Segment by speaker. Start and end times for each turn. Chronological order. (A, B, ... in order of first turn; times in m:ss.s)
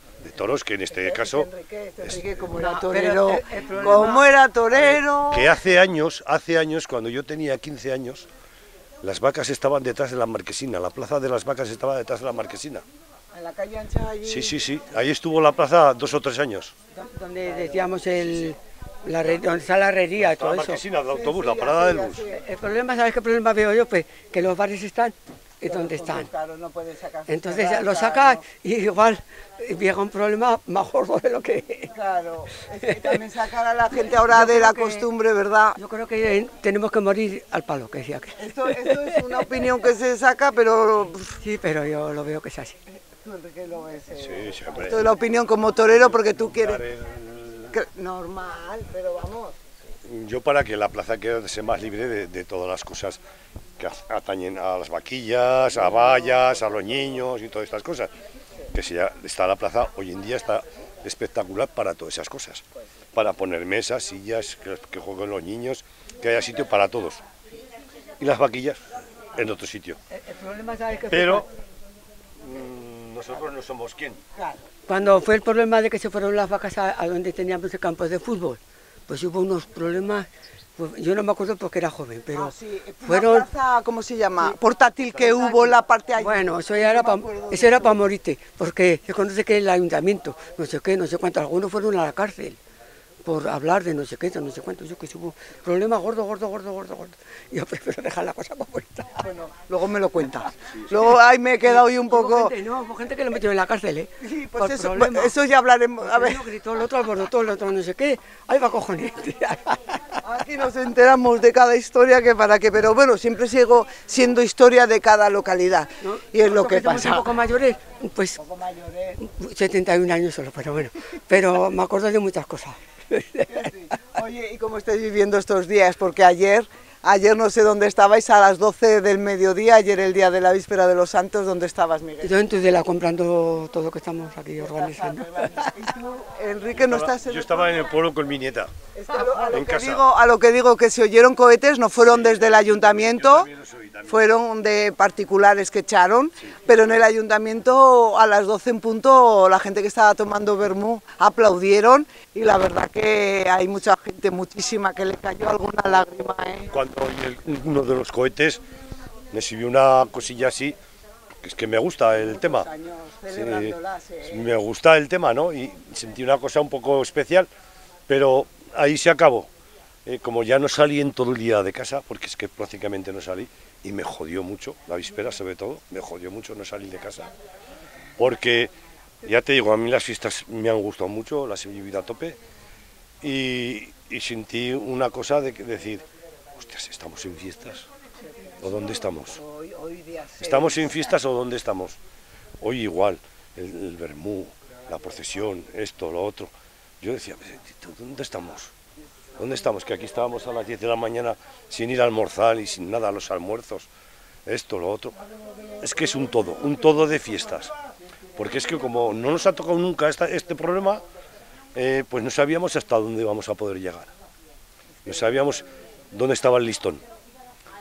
0:00.2-0:01.5 A
0:00.9-0:05.6 B
0:02.5-0:04.3 C
0:04.7-0:08.3 A
0:09.0-0:12.9 A
0:13.3-0:14.6 B
0:14.2-0:16.8 A
0:17.0-0:20.8 C
0:17.4-0:18.0 B
0:20.2-0:22.2 A
0:21.0-0:22.4 B
0:22.3-0:26.3 C
0:25.6-0:28.4 B
0:27.3-0:31.9 C
0:31.9-0:35.8 B
0:34.1-0:35.1 C
0:35.8-0:39.4 C
0:38.4-0:41.4 B
0:41.4-0:42.8 C
0:43.2-0:46.9 B
0:44.2-0:45.1 A
0:45.9-0:47.8 A
0:47.7-0:49.5 B
0:50.0-0:53.2 A
0:53.8-0:58.1 A
0:58.7-1:07.2 A
1:08.2-1:10.0 A
1:10.1-1:11.5 C
1:11.1-1:11.5 A
1:12.4-1:14.2 A
1:14.4-1:14.6 B
1:14.9-1:22.5 C
1:22.3-1:28.0 B
1:23.0-1:23.5 C
1:25.2-1:32.6 C
1:33.2-1:39.2 C
1:39.2-1:42.5 B
1:41.6-1:45.4 C
1:44.2-1:46.4 B
1:46.0-1:50.2 C
1:50.2-1:57.3 B
1:56.0-1:58.4 C
1:58.4-1:59.2 B
1:59.2-2:03.7 C
2:03.5-2:12.3 B
2:12.2-2:15.8 C
2:14.6-2:17.9 B
2:16.7-2:18.7 A
2:18.9-2:23.5 B
2:19.5-2:20.0 A
2:22.0-2:24.2 A
2:24.1-2:36.7 B
2:36.7-2:38.6 A
2:39.3-2:40.8 A
2:41.4-2:42.7 A
2:42.2-2:44.4 B
2:43.3-2:47.5 A
2:48.1-2:49.5 A
2:50.0-2:57.3 A
2:58.2-2:58.7 A
2:59.2-3:02.4 A
3:03.2-3:07.9 A
3:08.6-3:09.4 A
3:09.3-3:10.9 B
3:10.4-3:12.0 A
3:12.6-3:18.7 A
3:19.4-3:23.9 A
3:24.4-3:25.2 A
3:25.8-3:27.7 A
3:28.4-3:31.0 A
3:31.8-3:34.1 A
3:35.0-3:37.0 A